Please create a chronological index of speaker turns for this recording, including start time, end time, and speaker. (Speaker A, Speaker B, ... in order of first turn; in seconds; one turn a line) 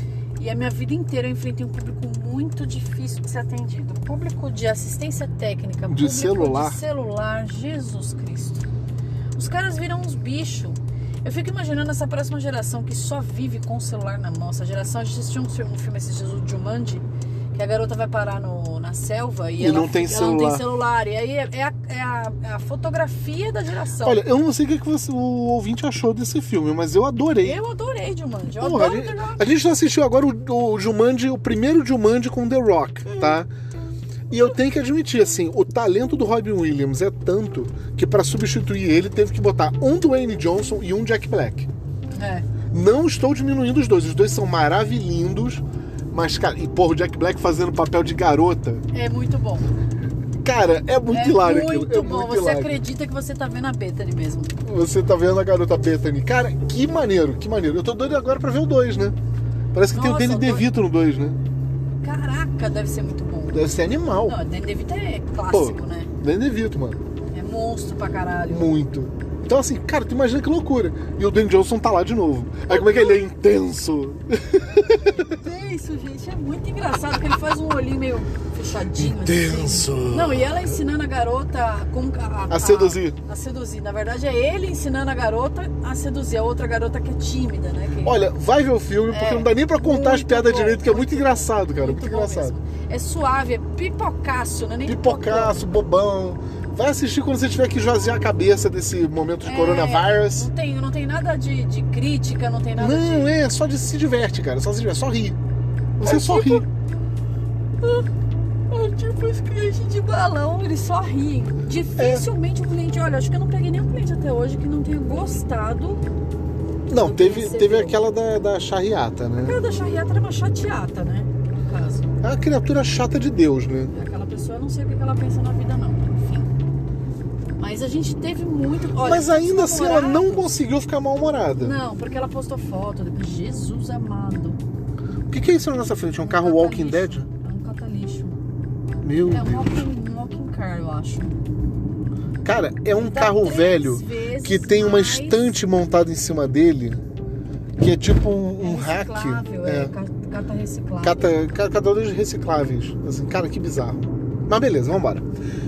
Speaker A: 0.4-8.7
Speaker B: 5.9-6.8
Speaker A: 9.3-24.2
Speaker B: 19.6-20.7
Speaker B: 24.0-27.6
Speaker A: 27.4-29.5
Speaker B: 28.6-33.5
Speaker A: 33.1-33.4
Speaker B: 34.3-41.7
Speaker A: 42.1-42.5
Speaker B: 42.7-48.9
Speaker A: 48.9-49.7
Speaker B: 50.4-52.8
Speaker A: 51.1-54.5
Speaker B: 54.6-59.1
Speaker B: 59.7-61.4
Speaker A: 59.9-60.7
Speaker A: 62.0-63.7
Speaker B: 63.5-64.4
Speaker A: 64.2-66.1
Speaker B: 65.5-67.0
Speaker A: 67.3-68.7
Speaker B: 68.5-75.3
Speaker A: 72.7-73.2
Speaker A: 75.1-88.2
Speaker B: 79.0-80.8
Speaker B: 82.5-83.2
Speaker B: 88.0-92.6
Speaker A: 89.1-95.7
Speaker B: 94.8-100.5
Speaker A: 99.4-103.4
Speaker B: 102.8-105.4
Speaker B: 106.0-106.7
Speaker A: 106.0-106.7
Speaker A: 107.8-108.1
Speaker A: 108.7-116.0
Speaker B: 112.0-112.3
Speaker B: 116.9-119.6
Speaker A: 116.9-118.0
Speaker A: 119.4-122.1
Speaker B: 122.2-123.9
Speaker A: 123.9-126.5
Speaker A: 127.6-130.5
Speaker B: 129.0-131.8
Speaker A: 131.6-134.6
Speaker B: 135.3-137.3
Speaker A: 136.2-138.4
Speaker B: 139.0-139.8
Speaker A: 139.3-141.4
Speaker B: 142.4-147.0
Speaker A: 142.9-145.5
Speaker B: 147.8-149.9
Speaker A: 148.6-151.4
Speaker B: 151.0-155.2